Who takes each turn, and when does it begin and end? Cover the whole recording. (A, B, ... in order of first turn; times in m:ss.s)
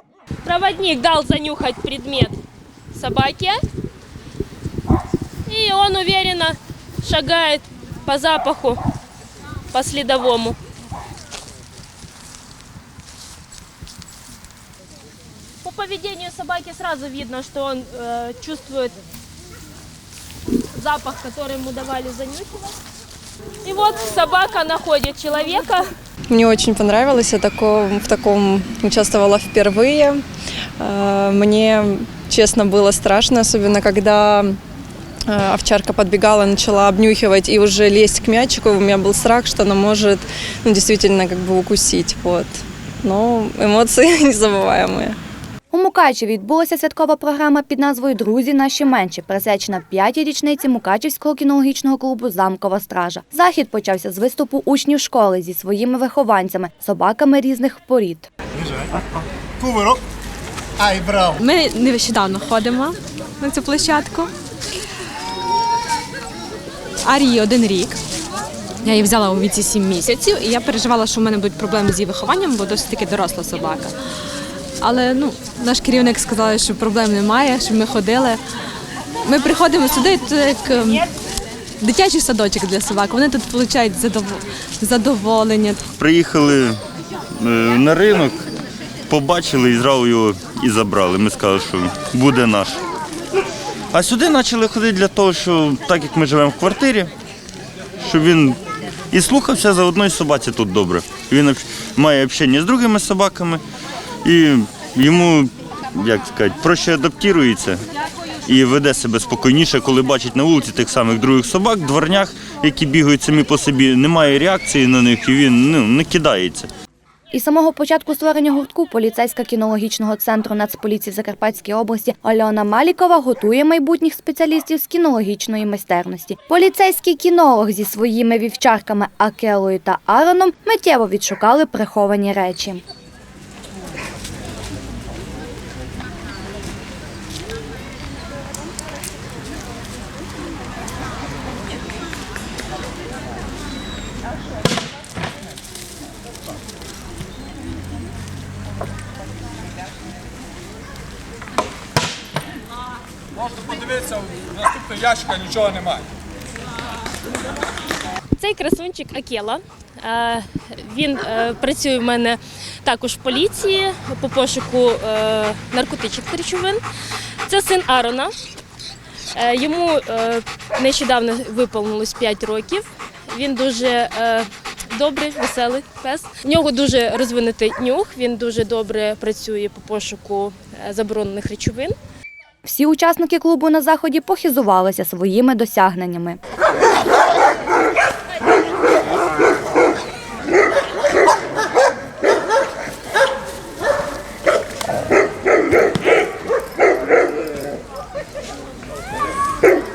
0:00.4-0:02.4 A
0:02.9-0:03.6 A
0:05.5-0:08.8 A
0:09.7-0:10.6 A
0:15.6-0:19.0 A
0:20.7-0:22.8 A
0:23.6-0:25.9 A
0:26.3-0:30.2 B
0:30.8-0:34.4 B
0:35.3-0:45.2 B
0:45.7-0:58.3 C
0:59.6-1:00.0 D
1:00.8-1:01.3 D
1:01.4-1:04.3 E
1:07.0-1:08.0 E
1:08.8-1:13.9 E
1:14.8-1:18.4 E
1:19.2-1:21.1 E
1:21.8-1:25.8 E
1:26.0-1:26.8 F
1:27.4-1:28.4 F
1:29.1-1:32.8 F
1:33.9-1:37.1 F
1:38.0-1:38.6 F
1:39.1-1:43.6 F
1:44.2-1:47.8 F
1:48.4-1:56.7 F
1:57.3-2:12.8 C
2:33.5-2:36.1 D
2:38.4-2:46.8 A
2:47.4-2:48.3 A
2:49.3-3:01.9 A
3:02.6-3:06.4 C